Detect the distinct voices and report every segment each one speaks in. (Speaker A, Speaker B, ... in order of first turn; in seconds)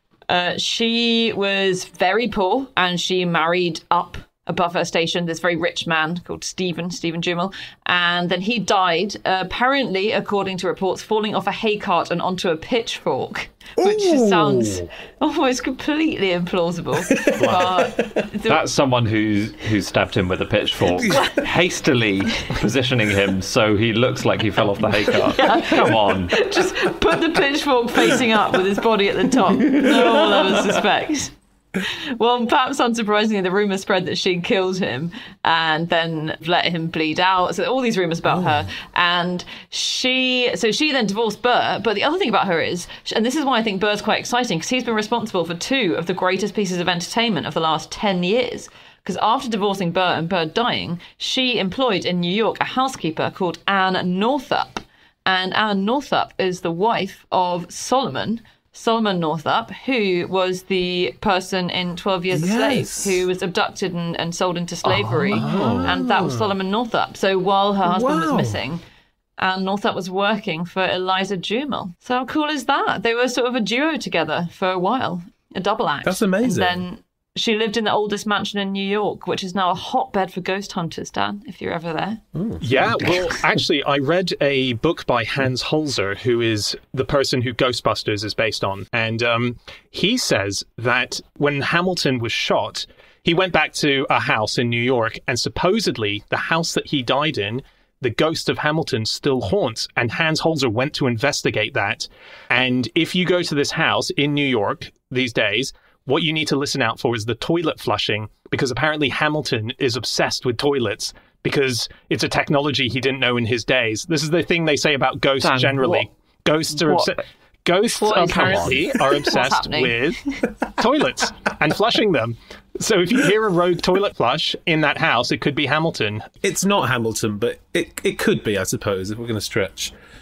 Speaker A: 0.3-18.6, 21.0-21.4, 25.3-68.8, 69.4-82.2, 118.0-120.4
Speaker B: 13.8-14.9, 17.1-18.2, 20.9-21.3, 62.3-63.2, 65.3-66.5, 67.8-68.6, 76.0-76.8, 82.3-83.2, 126.4-129.9
Speaker C: 18.4-26.5, 29.8-30.5, 64.8-65.9, 115.4-116.1, 116.7-117.2, 118.1-118.9
Speaker D: 82.6-126.2